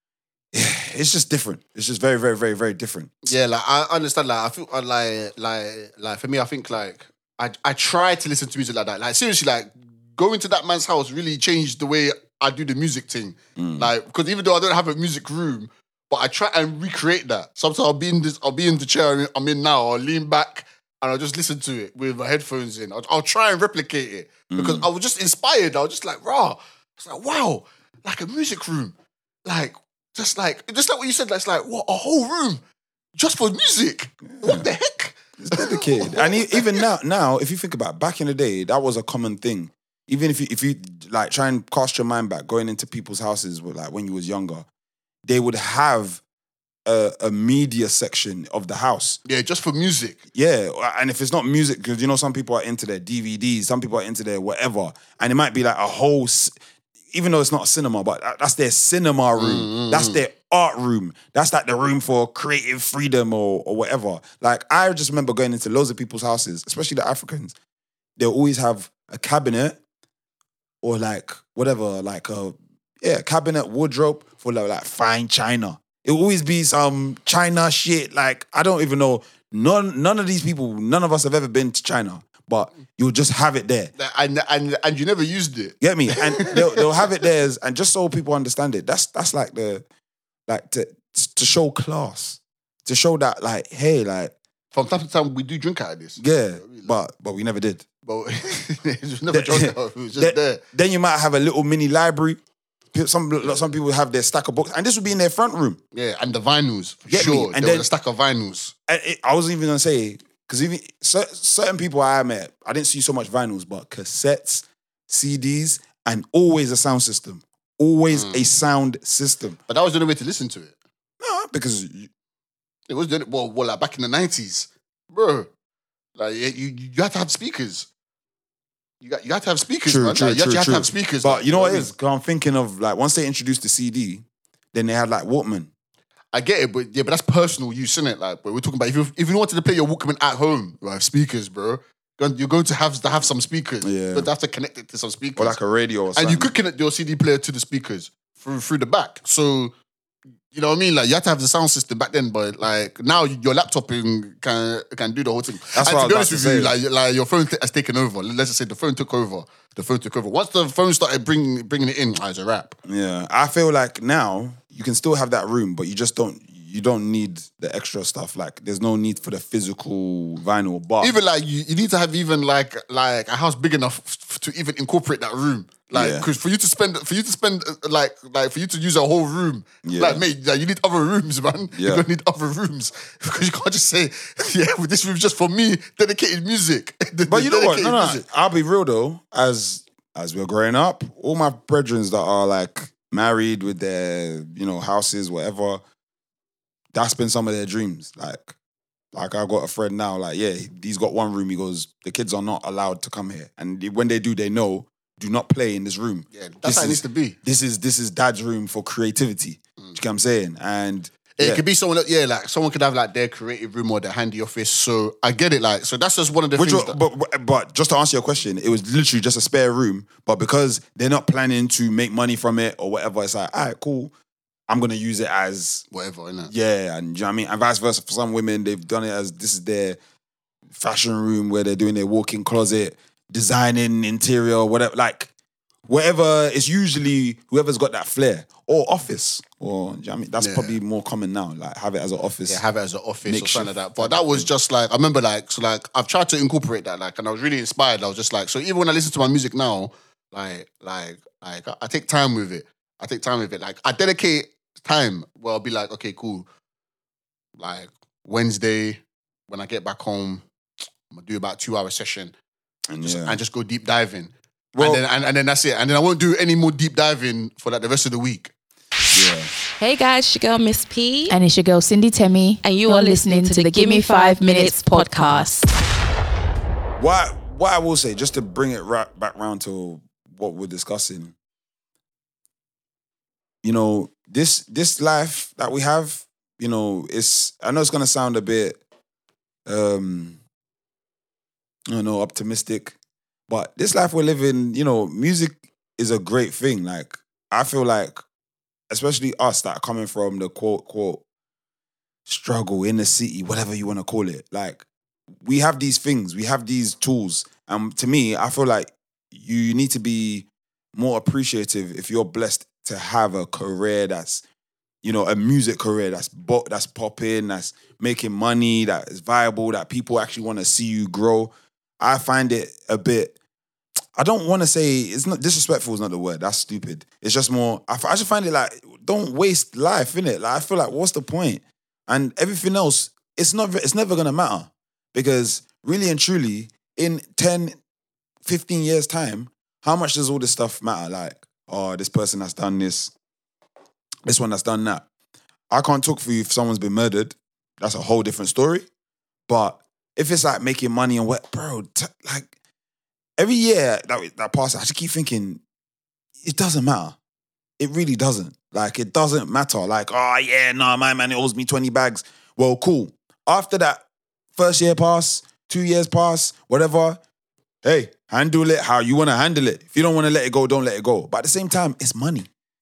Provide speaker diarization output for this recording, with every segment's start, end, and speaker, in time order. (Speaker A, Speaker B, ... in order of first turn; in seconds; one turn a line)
Speaker A: 0.5-3.3
Speaker B: 3.2-28.9
Speaker A: 13.6-13.9
Speaker A: 24.5-24.9
Speaker B: 29.5-32.6
Speaker B: 33.2-36.7
Speaker A: 34.3-34.7
Speaker A: 35.4-44.7
Speaker A: 45.3-46.2
Speaker A: 46.9-49.2
Speaker B: 49.2-50.2
Speaker A: 50.3-56.5
Speaker A: 57.1-67.5
Speaker B: 59.4-60.2
Speaker A: 68.2-69.8
Speaker A: 70.8-83.9
Speaker B: 84.0-87.1
Speaker A: 85.8-89.8
Speaker A: 90.5-94.3
Speaker B: 94.7-96.9
Speaker A: 96.2-97.8
Speaker B: 98.0-100.6
Speaker A: 99.3-102.4
Speaker A: 102.9-105.8
Speaker B: 105.9-108.7
Speaker A: 107.1-107.9
Speaker A: 108.9-119.6
Speaker B: 118.1-118.5
Speaker B: 119.7-120.8
Speaker A: 121.2-122.1
Speaker B: 122.9-125.5
Speaker B: 126.2-127.9
Speaker B: 129.0-131.9
Speaker A: 129.9-135.7
Speaker B: 136.3-145.6
Speaker A: 143.8-144.3
Speaker A: 145.4-146.5
Speaker B: 146.2-149.7
Speaker B: 150.5-162.8
Speaker A: 155.7-156.7
Speaker A: 162.9-171.2
Speaker B: 171.0-188.2
Speaker A: 175.9-176.3
Speaker A: 179.8-180.2
Speaker A: 181.8-182.0
Speaker A: 187.3-195.8
Speaker A: 196.9-198.5
Speaker A: 199.1-211.6
Speaker B: 206.3-207.4
Speaker B: 211.4-217.0
Speaker A: 216.6-224.1
Speaker A: 224.7-225.8
Speaker B: 225.9-226.5
Speaker A: 226.5-230.0
Speaker A: 230.8-235.3
Speaker A: 235.9-242.6
Speaker B: 240.4-240.8
Speaker B: 242.5-256.5
Speaker A: 243.2-244.5
Speaker B: 257.6-260.4
Speaker B: 261.1-262.3
Speaker A: 262.9-263.4
Speaker B: 263.0-268.5
Speaker A: 264.8-265.0
Speaker A: 269.1-269.5
Speaker C: 269.8-271.4
Speaker D: 271.3-271.6
Speaker D: 272.1-275.5
Speaker C: 272.6-275.6
Speaker A: 277.0-281.3
Speaker A: 283.6-288.8
Speaker A: 289.7-290.4
Speaker A: 291.9-292.9
Speaker A: 293.5-298.2
Speaker A: 298.9-301.2
Speaker A: 302.3-304.9
Speaker A: 305.4-314.4
Speaker A: 315.0-323.3
Speaker A: 324.1-337.8
Speaker A: 338.4-343.1
Speaker A: 344.2-345.1
Speaker A: 345.7-348.9
Speaker A: 349.5-352.5
Speaker A: 353.4-355.6
Speaker A: 356.4-357.2
Speaker A: 357.8-364.0
Speaker A: 364.6-367.2
Speaker A: 367.8-372.5